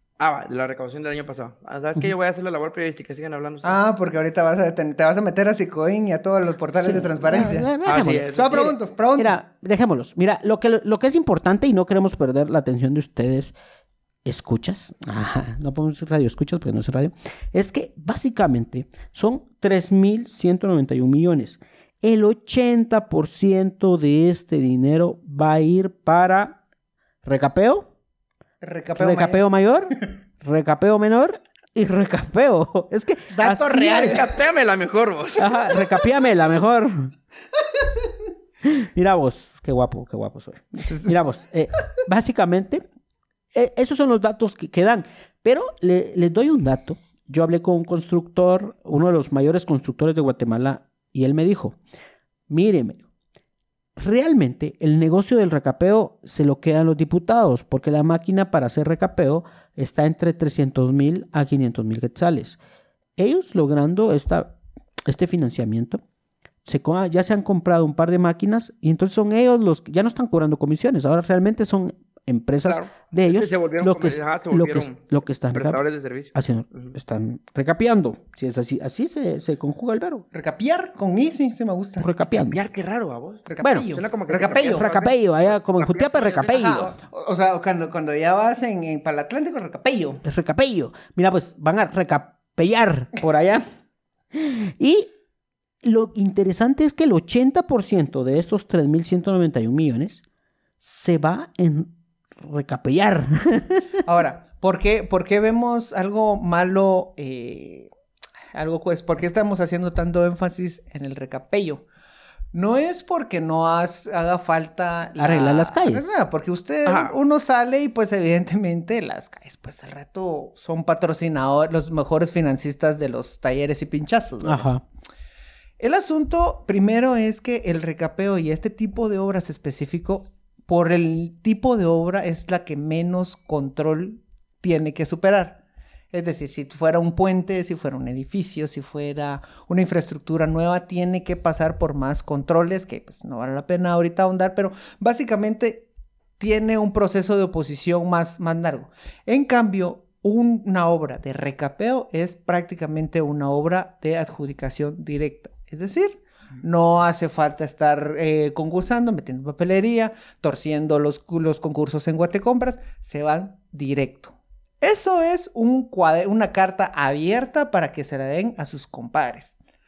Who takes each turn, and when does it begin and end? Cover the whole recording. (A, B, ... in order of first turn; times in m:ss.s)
0:00.2-0:03.8 A
0:03.6-0:07.7 B
0:06.8-0:13.5 C
0:07.8-0:08.7 A
0:08.3-0:09.3 B
0:14.2-0:26.6 C
0:27.2-0:27.9 C
0:28.6-0:29.4 B
0:29.0-0:34.3 C
0:33.3-0:34.3 B
0:34.0-0:35.9 A
0:35.4-0:37.1 C
0:38.6-0:42.8 C
0:40.7-0:41.1 B
0:43.5-0:51.8 C
0:52.5-0:53.0 C
0:54.0-1:02.6 C
1:03.2-1:06.0 C
1:06.6-1:15.8 C
1:12.6-1:15.0 A
1:15.5-1:16.9 A
1:16.3-1:20.2 C
1:20.3-1:22.1 B
1:22.0-1:22.6 C
1:22.4-1:26.8 A
1:23.5-1:24.9 B
1:23.6-1:23.9 C
1:24.7-1:26.9 C
1:26.5-1:30.2 B
1:30.2-1:33.6 C
1:34.3-1:35.1 C
1:35.8-1:40.2 C
1:40.8-1:43.9 C
1:44.0-1:47.9 B
1:48.5-1:51.8 B
1:52.5-2:04.6 B
1:55.2-1:56.1 C
1:56.8-1:57.2 A
2:04.4-2:04.8 C
2:05.8-2:15.6 B
2:16.1-2:25.9 B
2:26.4-2:49.5 B